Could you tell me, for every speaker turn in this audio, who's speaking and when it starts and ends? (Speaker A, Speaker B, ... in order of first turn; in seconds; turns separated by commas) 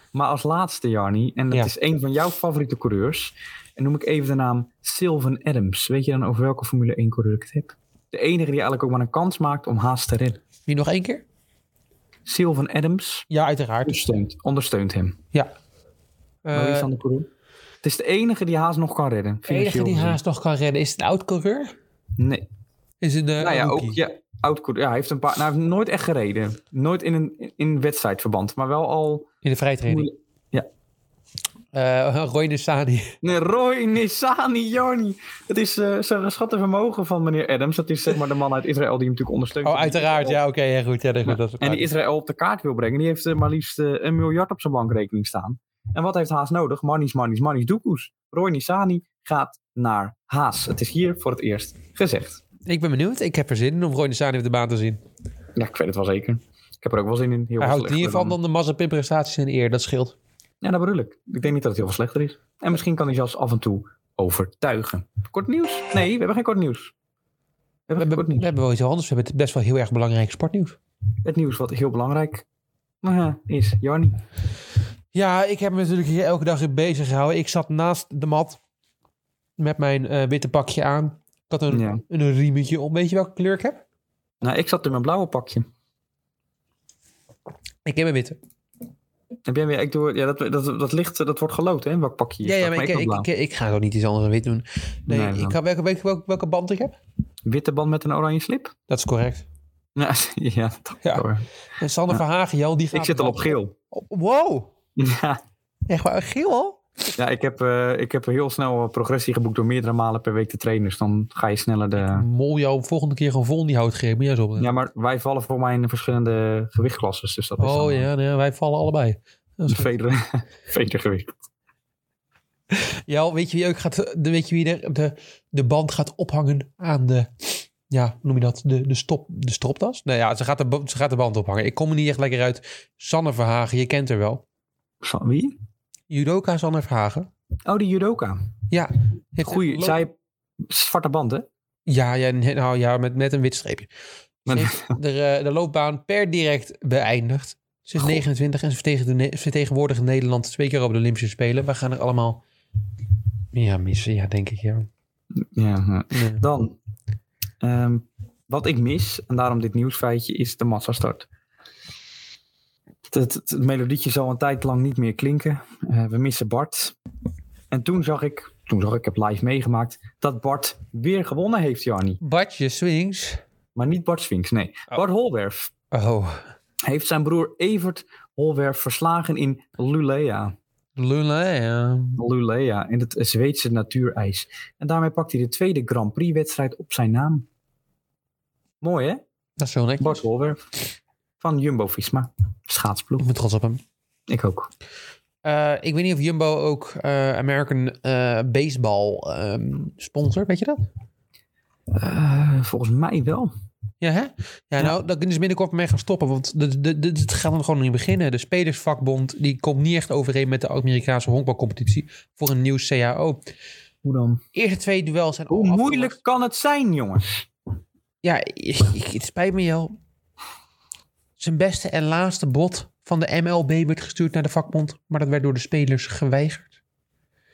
Speaker A: 0.1-10.4, Speaker B: 10.7-11.2, Speaker A: 12.3-13.3, Speaker B: 13.3-14.1, Speaker A: 13.8-15.2, Speaker B: 16.4-16.9, Speaker A: 16.5-17.3, Speaker A: 17.8-20.2, Speaker B: 19.5-21.7, Speaker A: 22.2-22.4, Speaker B: 23.0-24.0, Speaker A: 23.4-29.3, Speaker B: 29.4-30.1, Speaker A: 29.9-30.7, Speaker B: 31.7-33.2, Speaker A: 33.2-40.4, Speaker B: 39.6-41.9, Speaker A: 41.3-52.4, Speaker B: 52.7-55.0, Speaker A: 55.6-58.4, Speaker B: 57.6-60.2, Speaker A: 60.6-66.9, Speaker A: 67.9-68.5, Speaker B: 68.0-70.8, Speaker A: 71.2-72.5, Speaker A: 73.0-74.2, Speaker B: 75.1-78.6, Speaker B: 79.6-83.8, Speaker A: 81.7-82.0, Speaker A: 84.4-85.7, Speaker B: 87.9-88.4, Speaker A: 89.5-93.3, Speaker B: 92.4-97.0, Speaker A: 95.1-95.6, Speaker A: 97.5-98.7, Speaker B: 98.9-99.5, Speaker A: 100.0-101.5, Speaker B: 101.8-104.7, Speaker A: 102.9-103.7, Speaker A: 105.0-105.4, Speaker B: 105.9-106.8, Speaker A: 107.2-112.2, Speaker B: 112.0-114.7, Speaker A: 114.6-118.1, Speaker B: 117.6-119.9, Speaker A: 119.7-121.3, Speaker B: 122.7-134.4, Speaker A: 135.0-135.6, Speaker B: 136.1-137.3, Speaker A: 137.7-138.4, Speaker B: 138.7-140.0, Speaker A: 139.4-141.5, Speaker B: 141.9-143.9, Speaker A: 144.5-145.0, Speaker B: 144.5-152.4, Speaker B: 153.5-154.9, Speaker A: 155.3-156.8, Speaker B: 156.1-156.4, Speaker A: 157.6-161.3, Speaker A: 163.1-167.0, Speaker A: 167.7-172.2, Speaker B: 172.2-173.4, Speaker A: 173.8-175.7, Speaker B: 175.9-176.5, Speaker A: 176.8-180.5, Speaker B: 181.0-182.2, Speaker A: 182.2-187.5, Speaker A: 188.8-189.2, Speaker B: 189.6-190.2, Speaker A: 190.0-190.6, Speaker A: 191.4-193.2, Speaker B: 193.2-193.8, Speaker A: 194.3-194.7, Speaker B: 195.4-200.8, Speaker A: 201.9-203.5, Speaker B: 204.0-213.4, Speaker A: 214.0-214.4, Speaker B: 214.5-216.2, Speaker A: 215.5-217.5, Speaker B: 218.2-219.9, Speaker B: 221.4-226.7